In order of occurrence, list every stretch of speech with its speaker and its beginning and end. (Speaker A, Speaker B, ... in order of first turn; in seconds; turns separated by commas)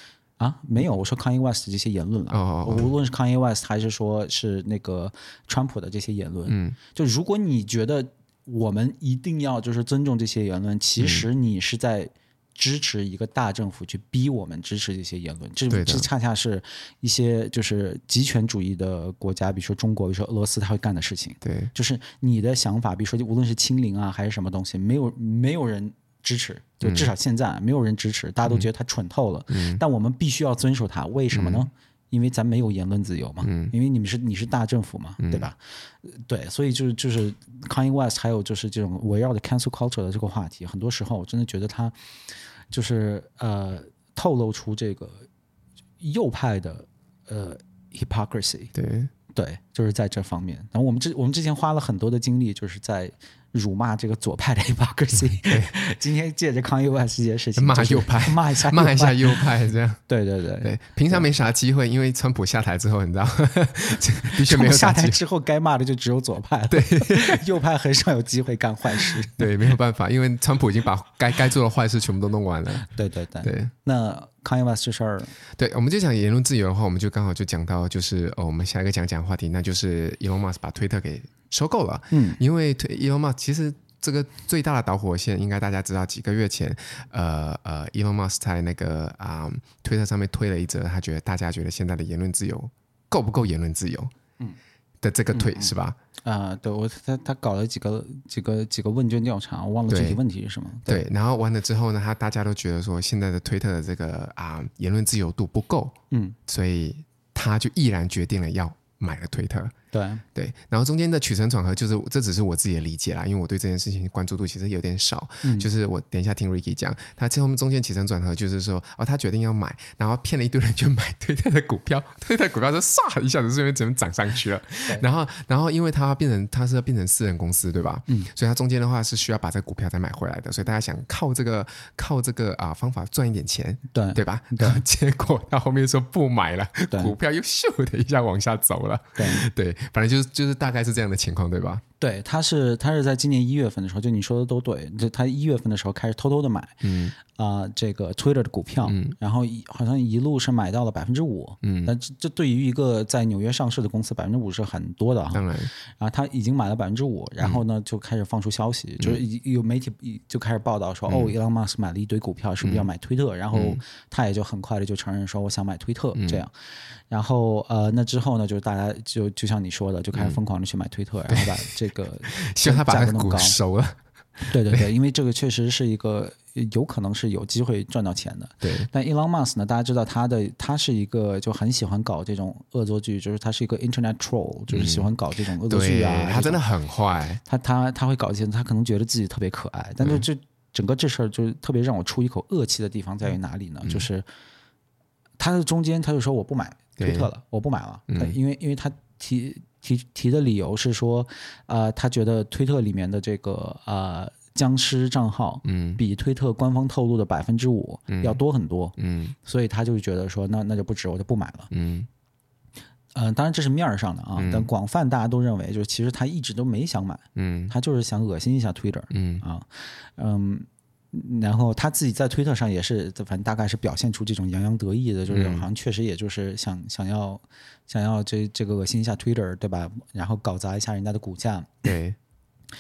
Speaker A: 0.4-41.9, Speaker B: 2.3-2.9, Speaker B: 6.5-6.8, Speaker B: 11.0-11.2, Speaker B: 15.7-16.1, Speaker B: 21.4-21.7, Speaker B: 26.8-27.1, Speaker B: 29.5-29.8, Speaker B: 31.3-31.7, Speaker B: 33.4-33.7, Speaker B: 35.2-35.5, Speaker A: 42.7-45.3, Speaker A: 46.0-48.7, Speaker B: 48.7-49.1, Speaker A: 49.3-59.5, Speaker B: 57.6-60.0, Speaker A: 60.1-61.3, Speaker B: 60.6-65.2, Speaker A: 64.3-69.7, Speaker B: 66.7-67.4, Speaker B: 69.0-72.9, Speaker A: 72.8-75.3, Speaker B: 73.4-73.7, Speaker B: 75.6-94.1, Speaker A: 82.1-82.4, Speaker B: 95.0-96.0, Speaker A: 95.3-101.0, Speaker B: 99.9-100.2, Speaker B: 100.9-109.7, Speaker A: 106.1-106.4, Speaker A: 109.9-110.2, Speaker B: 110.3-141.8, Speaker A: 115.4-115.7, Speaker A: 133.9-134.8, Speaker A: 139.2-139.4, Speaker A: 142.0-166.5, Speaker B: 146.8-147.1, Speaker B: 148.8-149.2, Speaker B: 151.6-151.9, Speaker B: 155.3-155.7, Speaker B: 161.1-161.3, Speaker B: 163.5-163.8, Speaker B: 166.2-166.4, Speaker A: 167.1-173.6, Speaker B: 171.3-171.7, Speaker B: 172.3-174.9, Speaker A: 174.5-186.6, Speaker B: 178.6-178.9, Speaker B: 184.7-185.1, Speaker B: 185.7-187.4, Speaker A: 187.4-194.2, Speaker A: 195.4-211.7, Speaker B: 197.0-197.3, Speaker B: 198.1-198.3, Speaker B: 205.6-206.0, Speaker B: 208.1-208.4, Speaker B: 209.0-209.3, Speaker B: 211.7-212.1, Speaker A: 213.1-231.9, Speaker B: 214.3-214.7, Speaker B: 217.3-217.7, Speaker B: 219.1-219.4, Speaker B: 225.3-225.7, Speaker B: 231.8-232.2